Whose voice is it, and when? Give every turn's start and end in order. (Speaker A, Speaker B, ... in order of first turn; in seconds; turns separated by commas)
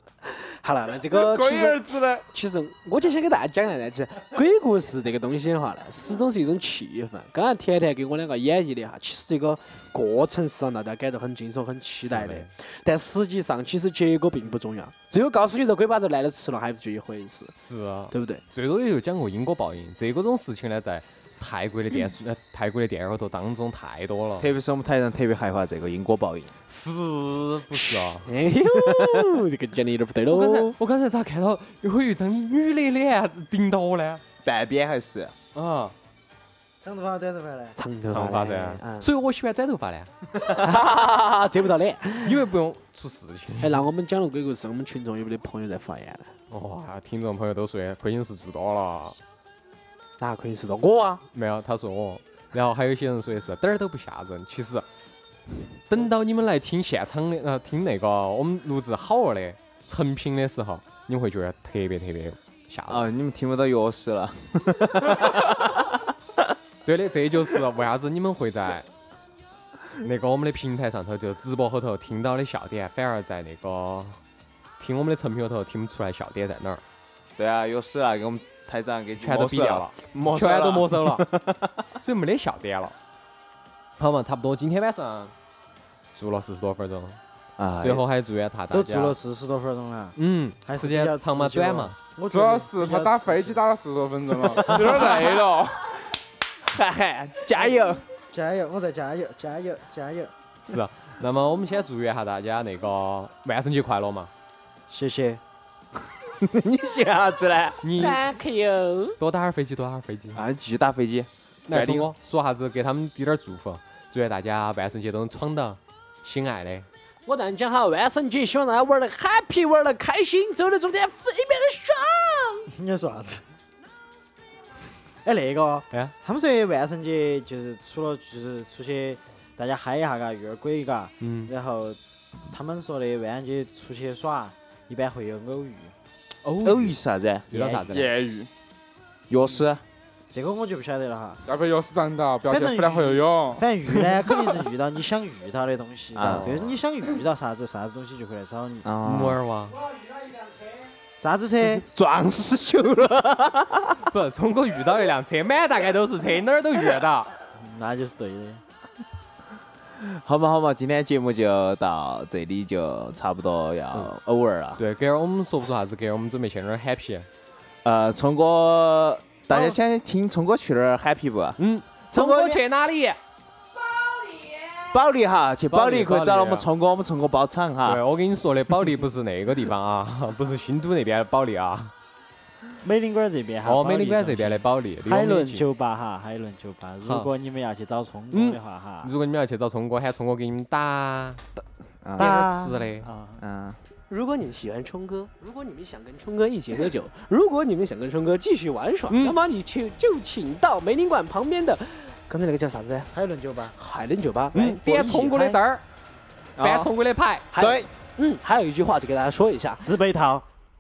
Speaker A: 0.2-17.5, Speaker B: 1.1-2.3, Speaker C: 12.0-12.5, Speaker C: 17.5-24.5, Speaker A: 18.1-18.4, Speaker D: 24.4-26.5, Speaker C: 26.7-28.3, Speaker A: 28.1-30.8, Speaker C: 30.3-34.2, Speaker D: 34.4-35.4, Speaker C: 35.5-36.0, Speaker E: 36.8-37.8, Speaker A: 37.8-39.1, Speaker C: 38.1-40.1, Speaker A: 40.4-42.4, Speaker C: 42.2-43.8, Speaker A: 43.6-46.3, Speaker C: 46.5-49.2, Speaker A: 50.2-51.2, Speaker C: 51.3-54.9, Speaker C: 55.9-63.1, Speaker D: 62.9-66.0, Speaker C: 66.8-68.9, Speaker C: 70.0-74.2, Speaker C: 74.8-76.8, Speaker D: 77.4-81.7, Speaker C: 79.2-81.3, Speaker C: 82.0-83.0, Speaker C: 84.0-85.3, Speaker C: 86.2-87.2, Speaker D: 87.6-88.0, Speaker C: 87.8-89.2, Speaker E: 88.7-93.6, Speaker C: 90.2-92.0, Speaker B: 92.3-96.1, Speaker D: 96.6-98.0, Speaker E: 98.3-100.3, Speaker C: 100.6-104.3, Speaker E: 104.9-105.4, Speaker D: 106.4-107.8, Speaker C: 107.8-108.2, Speaker A: 107.8-109.2, Speaker C: 109.2-110.4, Speaker D: 110.3-112.1, Speaker C: 111.7-116.9, Speaker A: 117.3-122.7, Speaker E: 122.7-123.4, Speaker E: 125.2-135.9, Speaker C: 131.2-131.5, Speaker C: 136.4-137.0, Speaker D: 136.6-137.8, Speaker C: 137.5-138.1, Speaker B: 137.8-138.5, Speaker D: 139.3-139.8, Speaker E: 140.3-141.4, Speaker B: 141.5-143.7, Speaker E: 142.5-148.9, Speaker D: 144.0-144.3, Speaker D: 146.2-146.8, Speaker D: 148.8-149.4, Speaker C: 149.0-149.9, Speaker E: 151.2-151.9, Speaker D: 151.9-154.1, Speaker C: 154.1-157.3, Speaker E: 157.6-158.6, Speaker D: 160.0-164.8, Speaker C: 164.8-167.3, Speaker D: 167.8-171.6, Speaker C: 171.6-173.2, Speaker D: 172.1-172.6, Speaker D: 174.8-178.0, Speaker C: 175.7-176.7, Speaker C: 177.9-181.9, Speaker E: 182.8-189.1, Speaker C: 183.7-185.7, Speaker C: 187.0-187.3, Speaker C: 188.3-191.4, Speaker D: 191.6-192.4, Speaker E: 192.2-193.4, Speaker C: 192.2-193.1, Speaker D: 193.4-193.8, Speaker A: 194.1-203.1, Speaker C: 199.1-199.4, Speaker E: 203.1-203.8, Speaker A: 203.8-205.6, Speaker C: 204.5-205.8, Speaker D: 206.6-206.9, Speaker C: 206.6-207.5, Speaker A: 207.5-209.9, Speaker D: 207.6-207.9, Speaker E: 209.8-210.5